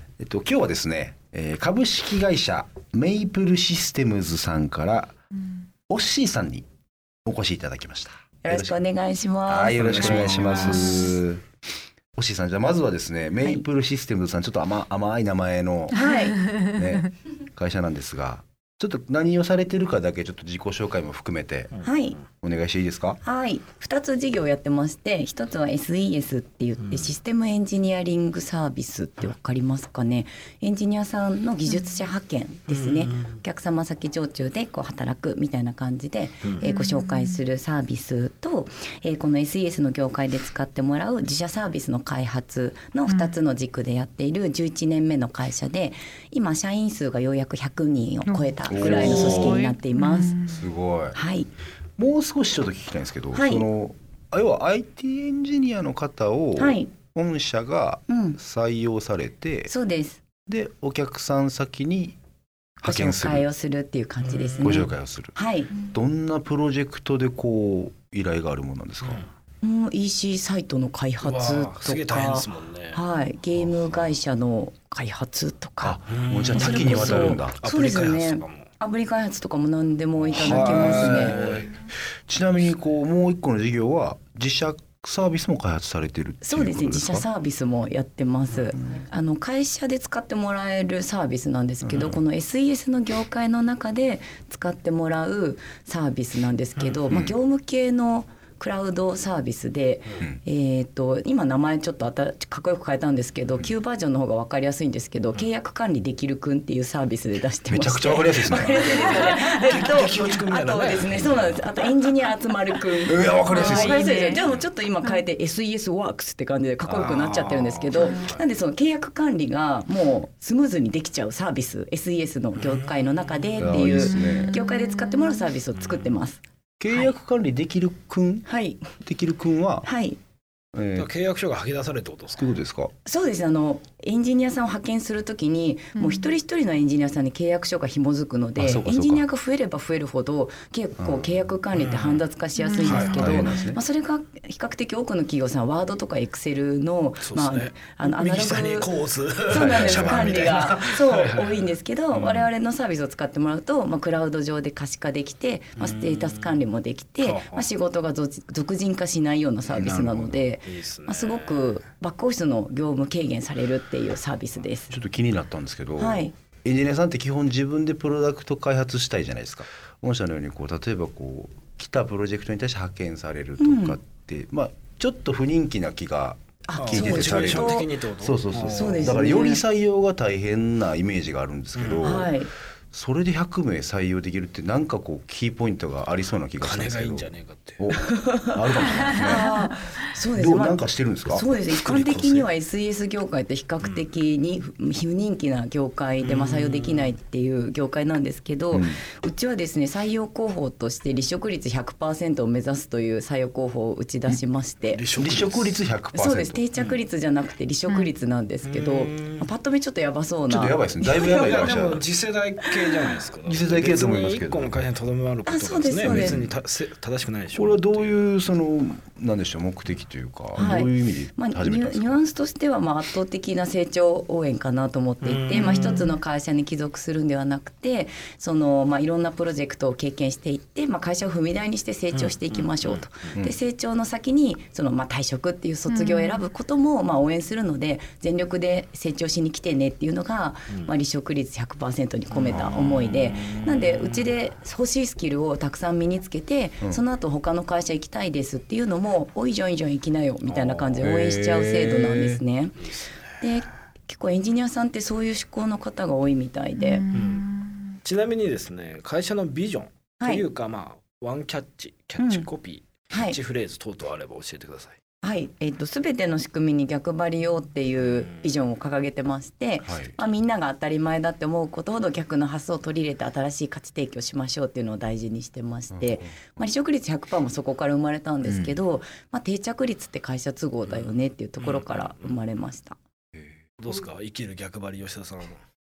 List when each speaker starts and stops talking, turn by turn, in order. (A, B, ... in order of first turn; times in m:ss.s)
0:00.2-0:05.1 A
0:05.3-0:05.7 B
0:05.9-0:06.6 A
0:07.2-0:08.8 A
0:08.4-0:11.1 C
0:09.5-0:11.4 A
0:09.8-0:10.8 D
0:10.6-0:11.2 B
0:12.1-0:15.9 A
0:15.9-0:16.4 C
0:16.0-0:17.0 B
0:16.5-0:21.7 A
0:21.8-0:22.2 C
0:22.4-0:23.2 A
0:23.2-0:50.4 C
0:26.8-0:27.2 D
0:31.7-0:32.0 B
0:32.7-0:33.4 D
0:36.6-0:37.4 B
0:43.0-0:43.4 B
0:48.3-0:50.7 B
0:48.7-0:49.6 A
0:50.5-0:51.2 A
0:51.1-0:51.5 C
0:52.0-0:59.7 A
0:53.3-0:53.6 C
0:56.6-0:56.9 C
0:58.1-0:58.4 C
0:59.7-1:00.2 C
1:00.4-1:02.2 A
1:02.8-1:03.5 A
1:02.8-1:05.8 C
1:04.2-1:04.9 D
1:04.6-1:05.4 A
1:05.9-1:09.2 A
1:09.0-1:09.3 D
1:09.6-1:16.0 C
1:11.2-1:13.0 D
1:13.6-1:14.2 D
1:15.8-1:17.6 A
1:16.1-1:18.7 D
1:16.5-1:21.4 C
1:20.2-1:21.7 D
1:20.3-1:21.7 A
1:22.3-1:27.3 A
1:26.4-2:07.1 C
1:36.8-1:37.2 D
1:37.1-1:37.4 A
1:47.6-1:48.8 A
1:48.6-1:51.9 D
1:48.9-1:49.4 B
1:53.1-1:54.1 A
1:53.4-1:54.4 B
1:54.3-1:54.7 D
1:56.8-1:57.4 A
1:56.9-1:58.4 D
1:57.9-1:58.3 B
2:02.5-2:03.7 D
2:03.6-2:04.6 A
2:03.9-2:05.5 B
2:05.7-2:06.2 D
2:06.8-2:08.5 A
2:08.4-2:09.0 C
2:09.0-2:09.9 A
2:09.8-2:10.2 C
2:10.7-2:11.1 A
2:10.9-2:12.6 D
2:12.4-2:12.9 A
2:13.0-2:28.9 C
2:15.9-2:16.3 B
2:18.6-2:19.2 A
2:21.0-2:21.4 A
2:21.7-2:22.2 D
2:22.6-2:23.7 B
2:22.8-2:23.8 A
2:22.8-2:23.4 D
2:27.2-2:32.5 D
2:29.5-2:44.9 C
2:29.5-2:30.8 A
2:35.8-2:37.7 D
2:39.7-2:40.4 A
2:40.6-2:41.8 D
2:44.9-3:02.3 A
2:46.0-2:46.3 C
2:53.6-2:54.0 C
2:56.6-2:57.9 C
2:56.8-2:59.2 D
2:58.6-2:59.6 C
3:01.7-3:02.3 D
3:02.0-3:02.5 C
3:02.9-3:09.5 A
3:06.4-3:07.9 D
3:08.1-3:25.0 C
3:09.0-3:09.7 B
3:10.3-3:11.4 A
3:11.6-3:12.5 D
3:13.8-3:14.1 D
3:16.2-3:17.2 D
3:18.7-3:19.0 A
3:24.9-3:25.8 D
3:25.2-3:26.6 A
3:26.1-3:31.7 C
3:26.7-3:27.0 D
3:28.6-3:29.5 D
3:30.5-3:32.0 A
3:31.2-3:38.3 D
3:32.7-3:33.0 C
3:33.4-3:34.8 A
3:35.4-3:36.5 C
3:36.0-3:36.5 A
3:37.5-3:42.2 A
3:40.5-4:12.9 C
3:45.2-3:46.2 D
3:52.1-3:53.4 D
3:55.9-3:56.4 B
4:02.3-4:04.3 D
4:10.4-4:13.5 D
4:11.0-4:12.2 A
4:13.4-4:17.0 C
4:16.8-4:18.0 B
4:17.1-4:17.5 D
4:18.0-4:25.0 D
4:20.2-4:20.4 C
4:22.2-4:22.5 C
4:23.1-4:23.4 C
4:25.2-4:43.0 C
4:28.0-4:28.6 D
4:29.8-4:30.2 A
4:35.9-4:36.5 A
4:38.4-4:38.8 A
4:40.8-4:42.5 D
4:43.3-4:43.6 A
4:43.8-4:45.6 D